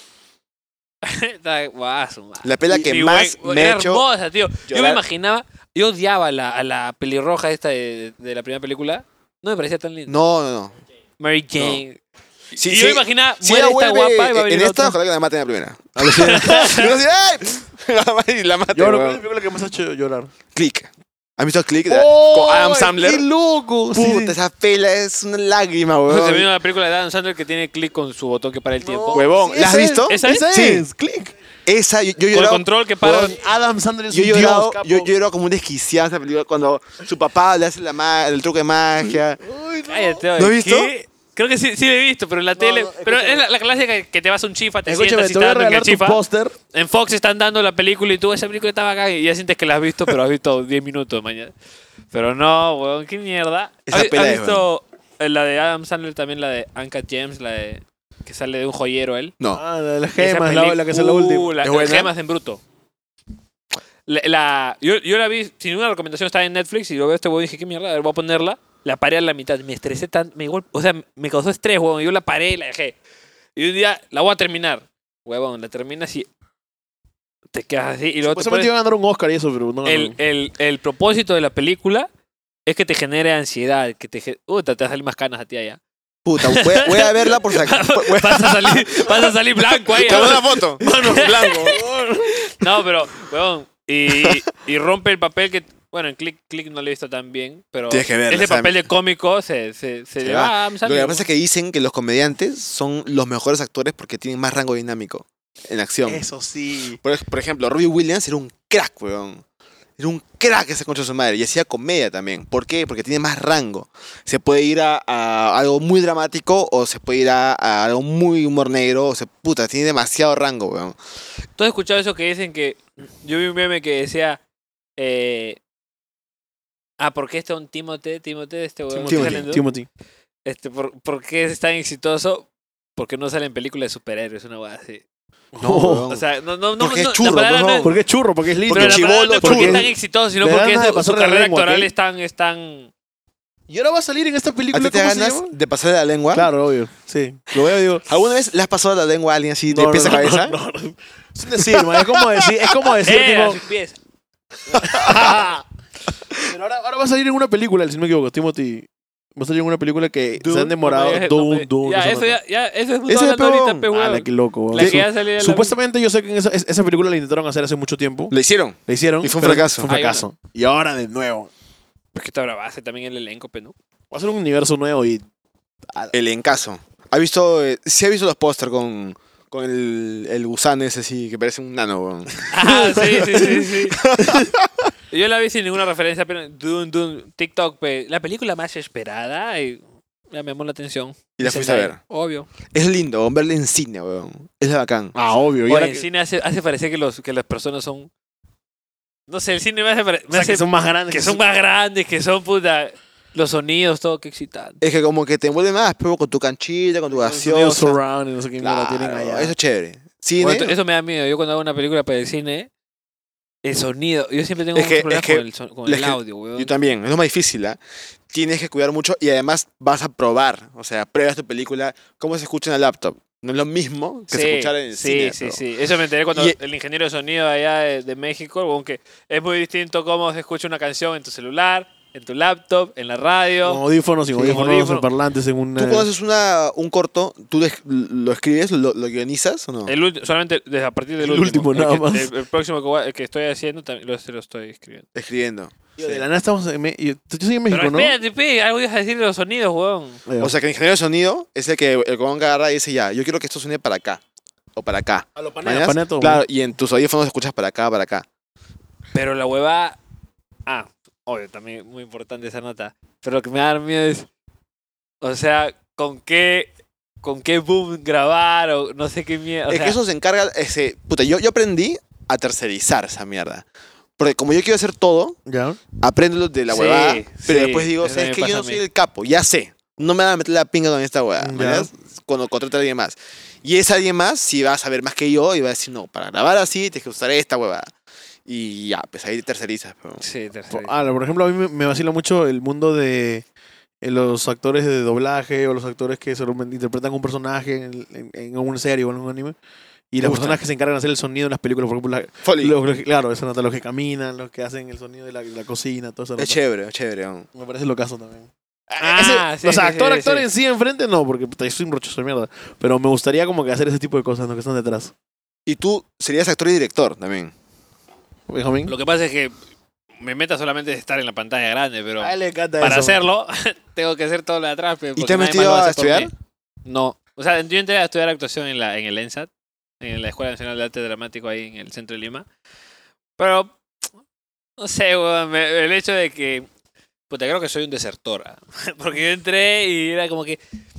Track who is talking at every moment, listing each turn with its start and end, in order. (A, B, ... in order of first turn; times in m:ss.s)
0:01.0-0:10.2 A
0:02.4-0:04.0 B
0:04.7-0:05.0 B
0:10.1-0:10.8 B
0:11.2-0:12.0 A
0:12.6-0:15.0 A
0:12.6-0:19.2 B
0:16.0-0:16.9 C
0:16.0-0:16.9 A
0:18.7-0:20.3 C
0:20.6-0:23.3 B
0:21.9-0:24.4 C
0:23.9-0:26.5 B
0:26.1-0:29.3 A
0:28.8-0:31.3 C
0:29.1-0:30.9 B
0:30.0-0:30.5 A
0:31.6-0:32.6 B
0:32.3-0:33.4 A
0:33.0-0:35.1 C
0:34.1-0:39.4 B
0:39.4-0:40.3 C
0:39.9-0:46.2 A
0:40.4-0:40.9 B
0:42.6-0:43.4 C
0:44.9-0:46.6 C
0:46.7-0:51.5 A
0:52.1-0:59.3 A
0:53.9-0:54.6 B
0:59.6-1:01.5 C
1:00.2-1:02.6 A
1:01.6-1:02.1 B
1:04.1-1:13.0 A
1:13.6-1:16.3 A
1:17.5-1:18.7 A
1:18.2-1:20.2 C
1:19.8-1:22.1 A
1:22.6-1:25.8 A
1:26.2-1:29.3 B
1:26.4-1:31.7 A
1:29.9-1:31.8 B
1:30.2-1:32.6 C
1:32.5-1:41.3 A
1:37.9-1:38.8 B
1:40.2-1:46.2 B
1:46.0-1:47.0 C
1:47.0-1:49.4 B
1:50.0-2:01.0 B
2:01.6-2:04.4 A
2:05.0-2:05.6 A
2:07.0-2:09.6 A
2:08.9-2:09.9 C
2:09.1-2:09.5 B
2:10.4-2:15.0 A
2:15.5-2:16.2 C
2:15.6-2:16.2 B
2:16.1-2:17.9 A
2:16.8-2:17.9 B
2:17.8-2:21.9 C
2:18.7-2:19.9 B
2:18.7-2:22.9 A
2:23.7-2:25.5 C
2:24.7-2:26.5 B
2:26.3-2:28.0 C
2:27.6-2:30.6 B
2:29.7-2:33.6 C
2:31.6-2:32.3 B
2:33.0-2:34.0 A
2:34.7-2:35.6 C
2:34.9-2:35.4 B
2:36.5-2:42.4 C
2:40.4-2:45.8 A
2:43.1-2:43.9 B
2:43.9-2:48.3 C
2:44.7-2:45.0 B
2:48.3-2:49.9 B
2:48.9-2:51.5 C
2:49.9-2:50.3 A
2:52.1-2:53.7 A
2:54.1-2:55.2 C
2:56.1-3:04.9 B
3:02.5-3:04.0 A
3:04.2-3:04.5 C
3:05.1-3:12.5 A
3:11.4-3:12.0 B
3:12.7-3:15.1 B
3:15.1-3:16.0 C
3:15.7-3:18.1 A
3:19.3-3:24.8 A
3:20.3-3:21.4 C
3:24.8-3:28.0 B
3:27.1-3:29.5 C
3:28.6-3:30.7 B
3:30.4-3:32.7 A
3:33.6-3:36.7 A
3:34.7-3:37.8 B
3:38.3-3:45.6 B
3:44.3-3:53.8 A
3:53.6-3:56.1 C
3:54.3-3:55.1 A
3:55.8-3:59.9 B
3:59.9-4:05.0 A
4:01.2-4:02.3 C
4:05.1-4:05.8 B
4:06.0-4:08.2 C
4:07.7-4:10.2 A
4:10.3-4:10.6 C
4:10.4-4:14.2 B
4:14.8-4:18.3 B
4:15.4-4:16.4 C
4:19.1-4:20.0 A
4:20.6-4:24.3 A
4:25.2-4:30.0 A
4:29.7-4:33.6 B
4:34.2-4:35.4 B
4:35.4-4:35.8 C
4:36.0-4:47.9 B
4:36.7-4:38.8 A
4:41.4-4:41.9 C
4:48.5-4:50.2 B
4:50.2-4:50.9 A
4:50.7-4:53.4 C
4:54.0-4:59.6 C
5:00.1-5:06.6 C
5:00.2-5:00.6 B
5:02.4-5:02.8 B
5:06.4-5:07.5 B
5:07.6-5:15.1 C
5:09.0-5:10.5 A
5:15.7-5:17.5 B
5:18.5-5:19.0 C
5:18.9-5:19.5 A
5:20.2-5:26.3 A
5:22.2-5:23.2 C
5:25.2-5:26.3 B
5:26.8-5:29.5 A
5:30.0-5:32.4 A
5:33.4-5:33.8 A
5:34.8-5:36.7 A
5:37.3-5:40.6 A